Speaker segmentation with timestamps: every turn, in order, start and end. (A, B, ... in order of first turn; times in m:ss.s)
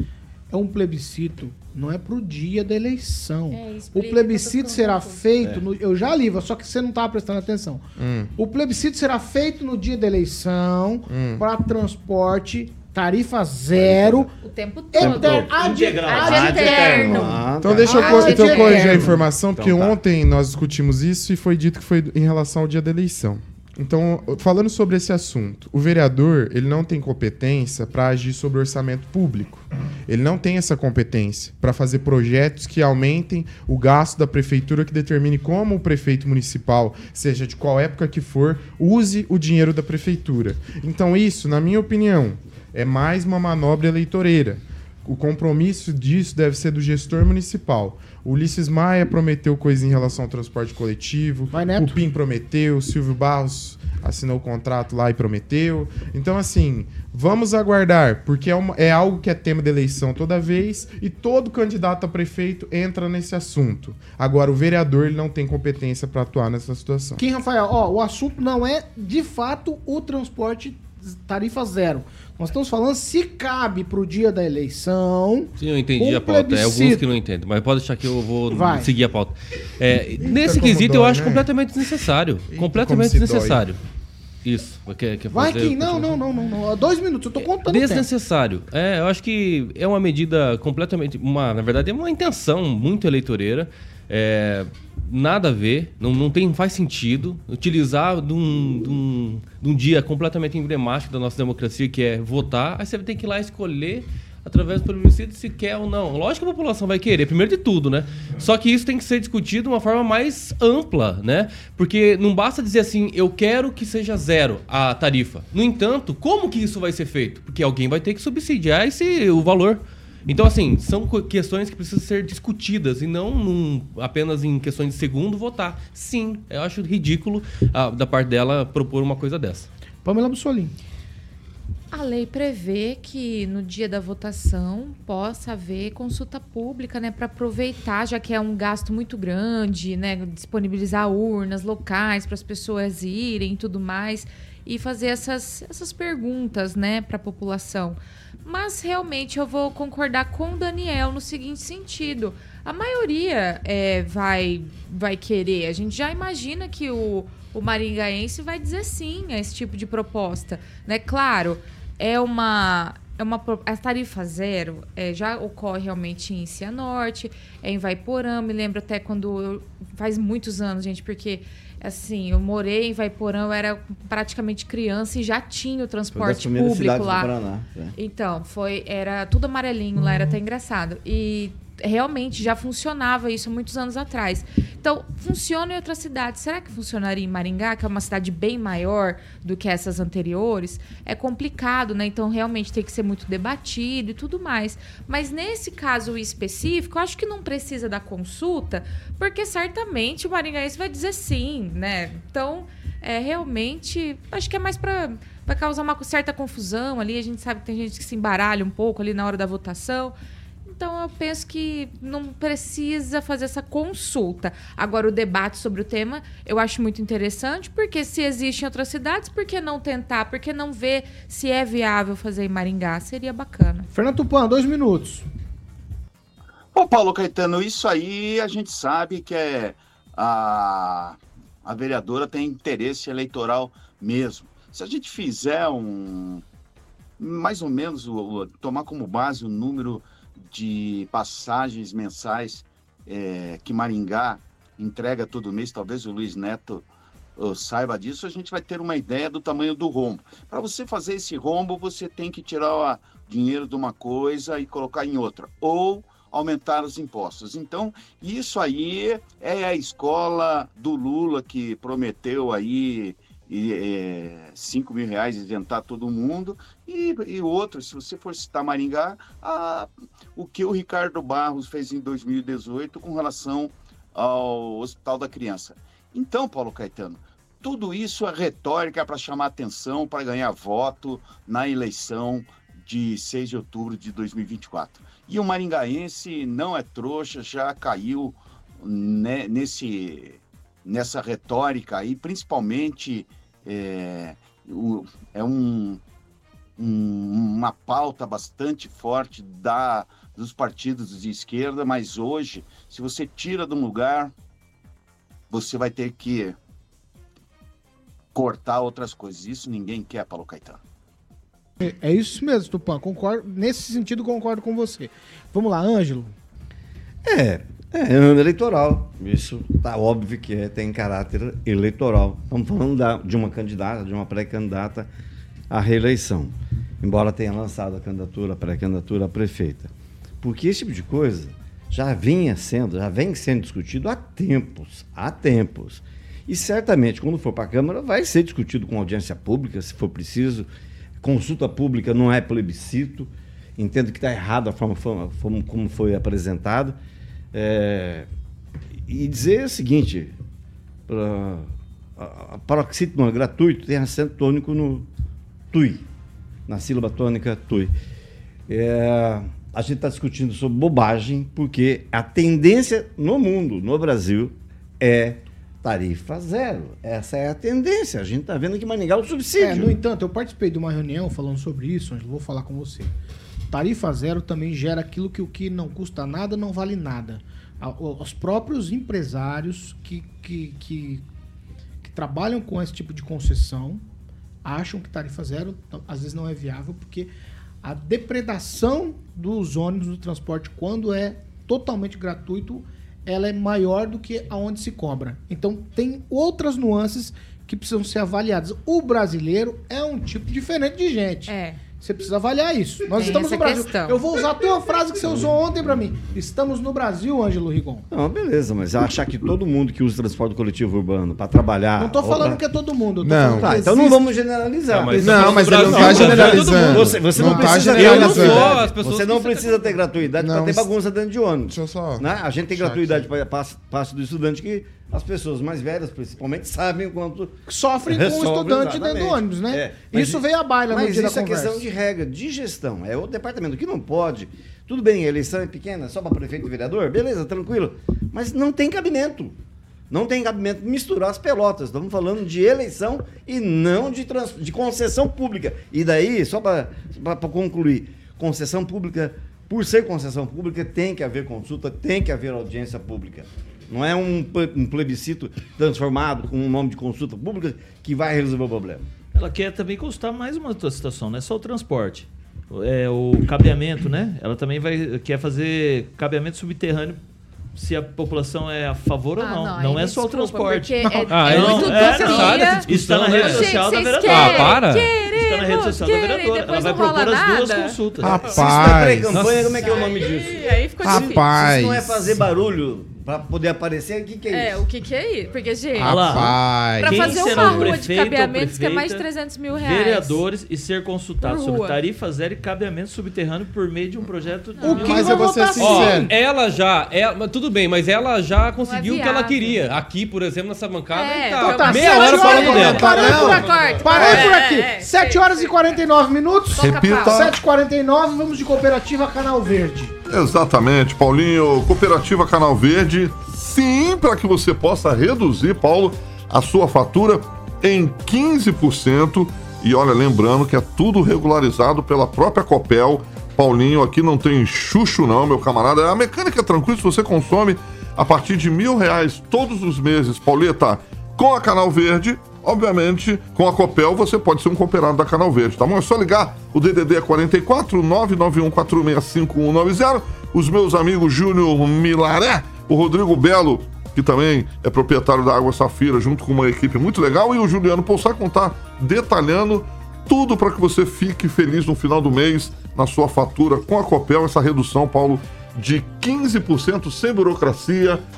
0:00.5-0:07.8 A
0:03.5-0:05.3 B
0:05.4-0:05.7 C
0:08.0-0:08.3 D
0:08.4-0:14.3 A
0:11.1-0:11.5 D
0:13.7-0:14.3 C
0:14.4-0:19.1 B
0:14.9-0:17.3 A
0:15.0-0:20.0 C
0:15.5-0:17.3 E
0:17.6-1:07.2 D
0:17.8-0:19.1 A
0:51.5-0:52.0 A
1:07.2-1:17.1 A
1:15.6-1:23.8 F
1:18.5-1:18.9 A
1:20.2-1:21.5 D
1:22.5-1:23.6 D
1:24.4-1:26.2 F
1:25.3-1:28.1 A
1:27.4-2:09.7 F
2:10.0-2:10.8 A
2:11.9-2:57.3 B
2:56.1-2:58.0 C
2:58.0-3:43.9 B
3:43.9-3:45.2 A
3:46.8-3:56.4 G
3:57.2-4:06.9 G
4:07.4-4:56.0 G
4:56.8-5:04.3 G
5:05.5-5:06.6 G
5:08.3-5:10.8 G
5:11.8-5:16.4 A
5:17.2-5:25.1 C
5:25.7-5:40.7 C
5:41.2-5:47.0 C
5:47.5-5:48.3 C
5:49.1-5:50.4 C
5:51.1-5:55.1 C
5:55.7-5:56.1 C
5:56.7-5:57.9 C
5:58.7-6:10.0 C
6:09.6-6:13.1 A
6:13.7-6:21.2 A
6:22.0-6:24.0 A
6:24.6-6:27.3 A
6:27.8-6:48.0 A
6:41.5-6:41.8 B
6:43.1-6:44.2 B
6:45.2-6:45.5 C
6:48.1-6:52.6 C
6:52.0-6:54.2 A
6:53.2-6:53.8 D
6:53.6-7:19.6 C
6:54.9-7:00.0 F
6:55.2-6:58.8 D
6:57.5-6:57.8 A
7:00.4-7:00.9 D
7:01.7-7:03.3 D
7:07.7-7:11.8 A
7:20.1-7:39.1 C
7:39.3-7:47.2 E
7:47.8-7:58.5 E
7:49.4-7:58.7 B
7:51.0-7:51.3 A
7:51.3-7:55.1 F
7:58.2-7:59.3 D
7:58.4-8:04.8 C
7:59.3-7:59.8 F
7:59.8-8:01.5 B
8:01.0-8:02.5 D
8:04.5-8:10.4 B
8:06.0-8:07.9 D
8:06.0-8:15.5 E
8:11.4-8:12.0 B
8:14.8-8:15.3 B
8:14.8-8:16.3 A
8:14.8-8:16.3 D
8:15.8-8:24.3 F
8:18.8-8:19.8 B
8:21.1-8:26.0 B
8:21.6-8:30.2 A
8:22.2-8:23.9 E
8:22.3-8:23.6 H
8:24.2-8:24.5 H
8:26.7-8:27.5 B
8:26.8-8:27.6 H
8:30.3-9:18.2 H